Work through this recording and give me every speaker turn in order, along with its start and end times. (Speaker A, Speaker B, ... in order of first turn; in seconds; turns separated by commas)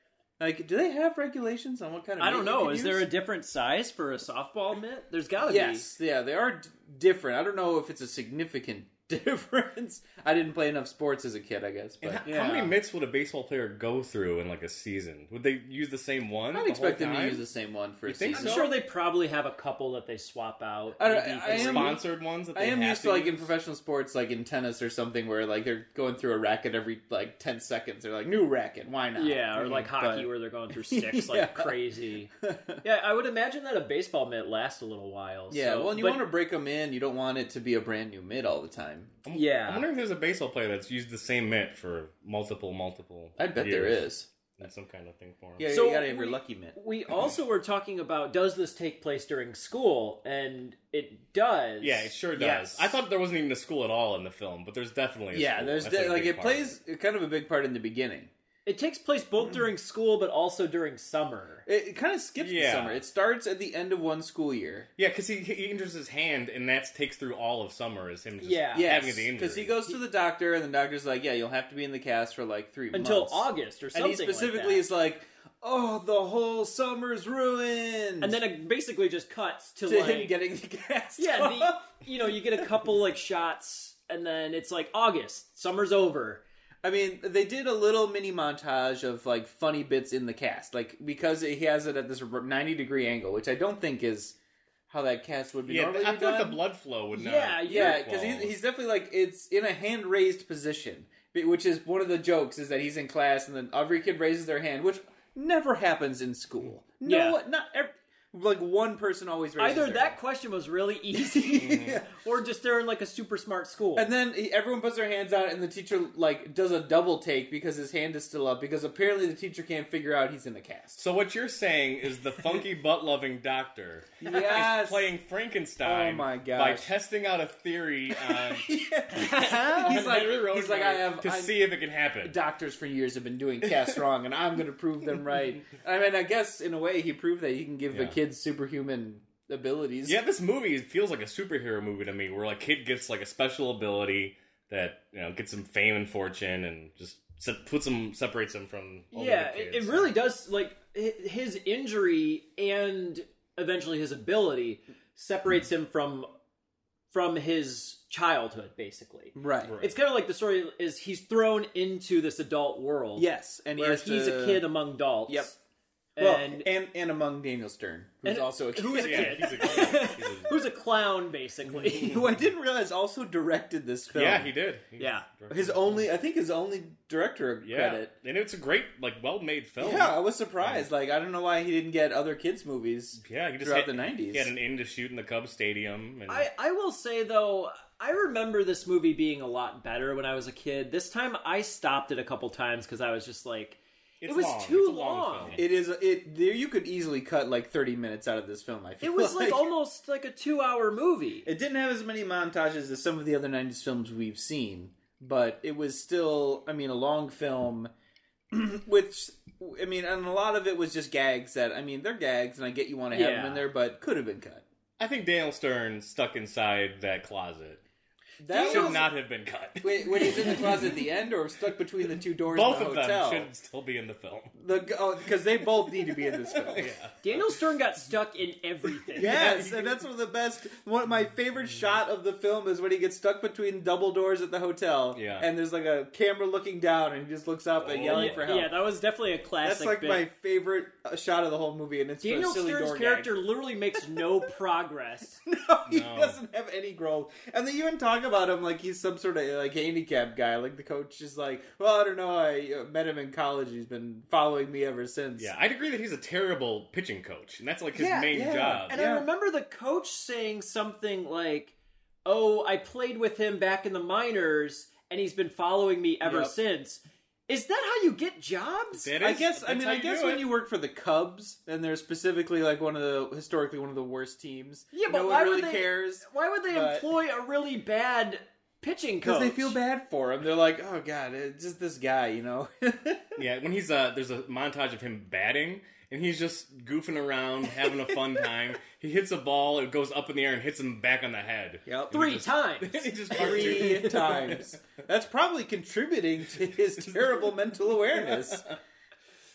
Speaker A: 0.4-3.1, Speaker B: 2.2-5.9, Speaker A: 5.4-12.3, Speaker C: 12.0-17.4, Speaker B: 12.2-12.8, Speaker A: 16.5-18.7, Speaker C: 18.1-18.8, Speaker B: 18.3-22.0, Speaker A: 21.0-31.8, Speaker C: 21.4-23.5, Speaker B: 29.2-32.3, Speaker A: 32.4-32.8, Speaker B: 32.8-36.3, Speaker A: 35.5-39.2, Speaker C: 39.2-45.7, Speaker B: 39.3-39.9, Speaker A: 43.4-44.3, Speaker A: 45.6-46.8, Speaker B: 45.6-52.8, Speaker C: 51.8-56.8, Speaker A: 55.3-58.3, Speaker B: 58.6-61.6, Speaker A: 61.7-64.9, Speaker C: 62.4-63.0, Speaker C: 65.0-69.9, Speaker B: 68.4-68.9, Speaker A: 68.8-78.4, Speaker B: 72.9-74.8, Speaker B: 78.2-80.3, Speaker A: 79.9-82.7, Speaker B: 81.2-86.4, Speaker A: 86.8-94.4, Speaker A: 94.9-96.6, Speaker C: 95.7-98.6, Speaker B: 97.1-98.0, Speaker A: 97.7-110.2, Speaker B: 107.0-107.4, Speaker B: 109.6-114.1, Speaker A: 111.2-112.1, Speaker C: 111.6-112.0, Speaker A: 114.0-121.0, Speaker C: 121.0-128.7, Speaker A: 124.2-125.1, Speaker A: 125.8-126.9, Speaker A: 128.2-140.2, Speaker B: 129.1-130.0, Speaker C: 129.2-132.4, Speaker C: 137.9-138.2, Speaker C: 140.1-150.1, Speaker B: 149.1-156.3, Speaker B: 157.1-165.6, Speaker A: 159.4-159.8, Speaker C: 159.6-159.9, Speaker A: 163.2-164.7, Speaker A: 165.3-165.5, Speaker B: 166.2-166.7, Speaker A: 166.2-170.1, Speaker B: 168.2-172.2, Speaker C: 169.0-170.6, Speaker A: 171.8-174.5, Speaker C: 174.1-176.1, Speaker B: 175.0-175.3, Speaker A: 175.5-178.1, Speaker C: 177.7-180.9, Speaker A: 179.8-184.5, Speaker C: 183.2-186.5, Speaker B: 186.3-195.6, Speaker C: 194.2-195.6, Speaker A: 195.6-199.7, Speaker B: 199.0-201.5, Speaker A: 201.5-207.9, Speaker A: 208.5-214.6, Speaker B: 213.1-213.7, Speaker C: 215.0-217.8, Speaker A: 218.4-219.1, Speaker B: 218.5-219.0, Speaker C: 218.6-221.0, Speaker A: 219.8-223.5, Speaker C: 222.5-224.6, Speaker A: 224.6-227.0, Speaker C: 226.1-227.6, Speaker B: 227.2-229.4, Speaker C: 229.1-230.0, Speaker A: 229.2-238.8, Speaker C: 235.1-235.5, Speaker C: 237.8-238.5, Speaker B: 238.1-240.3, Speaker A: 239.6-243.3, Speaker B: 242.2-245.4, Speaker A: 245.5-255.5, Speaker C: 245.9-246.4, Speaker C: 255.4-259.0, Speaker B: 257.9-258.4, Speaker A: 258.3-259.3, Speaker B: 258.9-261.7, Speaker B: 262.2-269.1, Speaker A: 266.2-266.5, Speaker C: 269.0-270.5, Speaker A: 269.2-277.1, Speaker B: 274.9-279.8, Speaker A: 279.2-283.4, Speaker C: 283.4-294.7, Speaker A: 291.9-292.1, Speaker B: 292.1-294.3, Speaker A: 293.3-298.7, Speaker C: 298.3-298.6